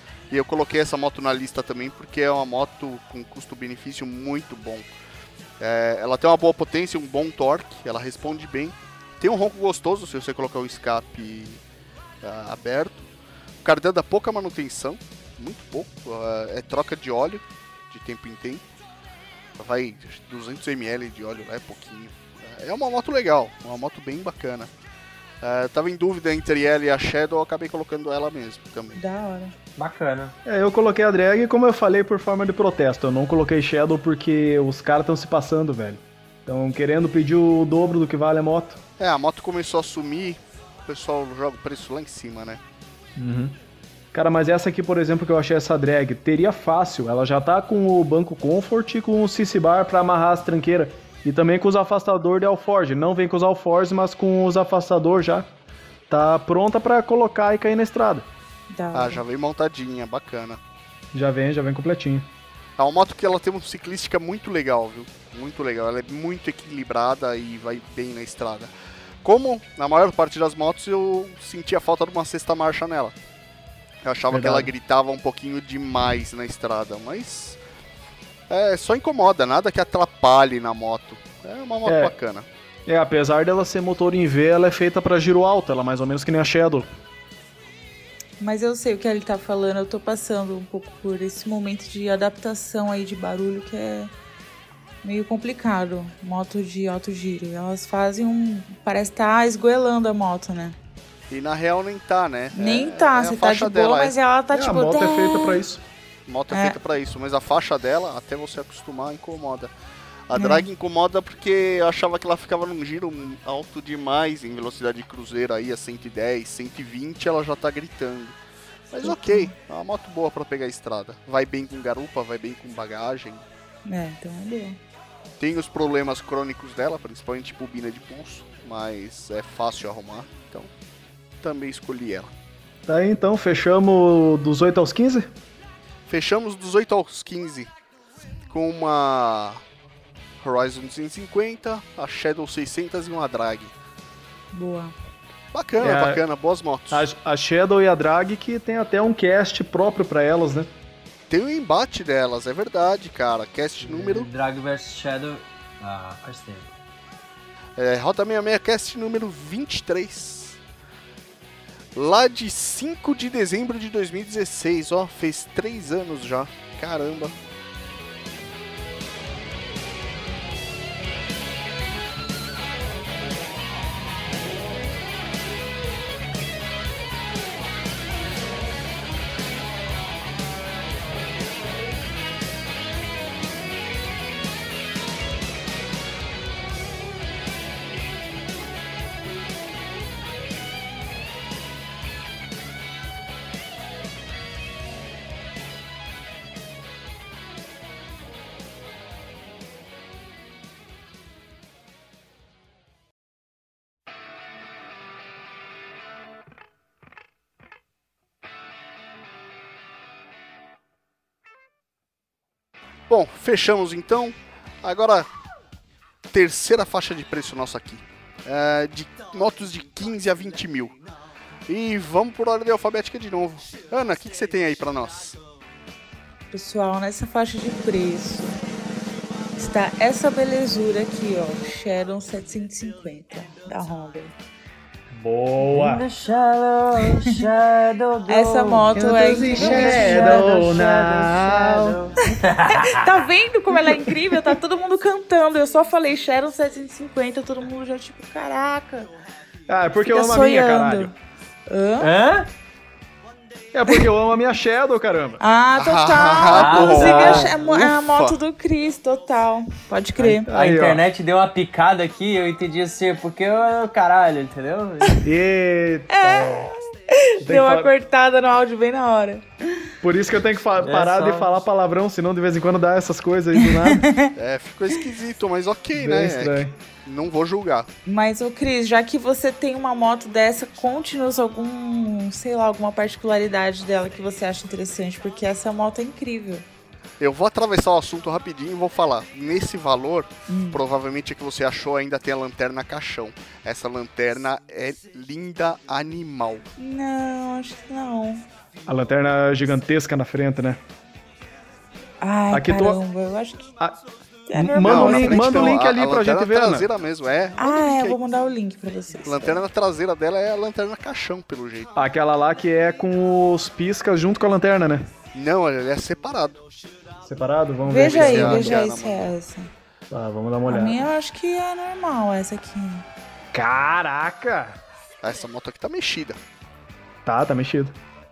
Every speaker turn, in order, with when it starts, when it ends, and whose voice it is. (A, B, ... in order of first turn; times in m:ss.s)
0:00.3-0:04.9 A
0:05.6-0:11.6 A
0:12.2-0:13.1 A
0:13.6-0:18.6 A
0:19.6-0:24.7 A
0:25.4-0:29.0 A
0:28.9-0:29.5 B
0:29.8-0:30.3 C
0:30.4-0:38.8 D
0:39.0-0:42.6 A
0:43.2-0:43.5 D
0:44.1-0:55.5 D
0:56.1-0:58.3 D
0:58.7-0:59.2 B
0:58.9-1:00.6 A
1:01.1-1:02.3 D
1:02.8-1:08.7 A
1:09.2-1:13.1 A
1:14.0-1:17.6 A
1:14.3-1:14.7 D
1:18.5-1:22.5 A
1:21.8-1:22.1 D
1:22.8-1:26.9 D
1:28.4-1:34.1 B
1:35.0-1:40.8 B
1:41.3-1:44.2 A
1:42.5-1:45.6 B
1:44.5-1:45.8 D
1:46.3-1:49.7 A
1:46.5-1:46.8 B
1:50.3-1:58.4 A
1:50.3-1:50.7 B
1:58.9-2:03.4 A
1:59.0-1:59.5 B
2:03.8-2:04.8 B
2:05.4-2:10.7 A
2:11.4-2:12.3 A
2:12.9-2:15.3 D
2:16.0-2:17.7 A
2:18.5-2:19.6 A
2:20.4-2:23.7 A
2:24.5-2:24.9 B
2:25.5-2:27.0 A
2:25.8-2:26.2 D
2:26.9-2:30.7 D
2:31.3-2:34.3 A
2:33.8-2:36.7 C
2:37.8-2:40.6 A
2:41.9-2:47.3 A
3:33.1-3:35.3 A
3:36.3-3:41.0 A
3:41.7-3:45.4 A
3:46.5-3:48.6 B
3:49.6-3:54.3 B
3:55.1-3:56.0 D
3:55.6-3:59.0 C
3:58.3-4:00.7 B
3:58.9-4:02.0 D
3:59.5-4:03.2 C
4:02.3-4:09.1 B
4:03.8-4:04.6 D
4:09.7-4:11.1 D
4:10.0-4:11.1 B
4:11.7-4:12.1 B
4:12.0-4:12.5 C
4:13.7-4:15.4 D
4:15.4-4:20.5 B
4:15.7-4:18.4 A
4:16.5-4:17.5 C
4:20.2-4:21.0 D
4:20.5-4:25.2 C
4:25.2-4:26.7 D
4:26.1-4:29.9 B
4:27.4-4:27.9 D
4:30.0-4:34.1 D
4:30.8-4:31.5 C
4:33.6-4:34.3 B
4:34.4-4:37.9 A
4:35.9-4:36.8 D
4:38.0-4:46.6 B
4:47.2-4:56.6 A
4:50.5-4:50.8 B
4:56.8-4:58.4 B
4:58.9-5:00.8 D
5:02.2-5:03.7 B
5:02.5-5:03.0 D
5:04.5-5:05.8 B
5:04.5-5:06.9 D
5:04.8-5:08.2 A
5:07.6-5:09.6 B
5:09.2-5:11.9 A
5:12.0-5:15.1 D
5:15.3-5:16.6 A
5:17.2-5:18.8 D
5:17.8-5:19.7 B
5:18.0-5:19.3 A
5:20.1-5:21.1 D
5:20.7-5:23.0 B
5:23.5-5:24.8 D
5:25.2-5:26.4 A
5:27.2-5:27.9 D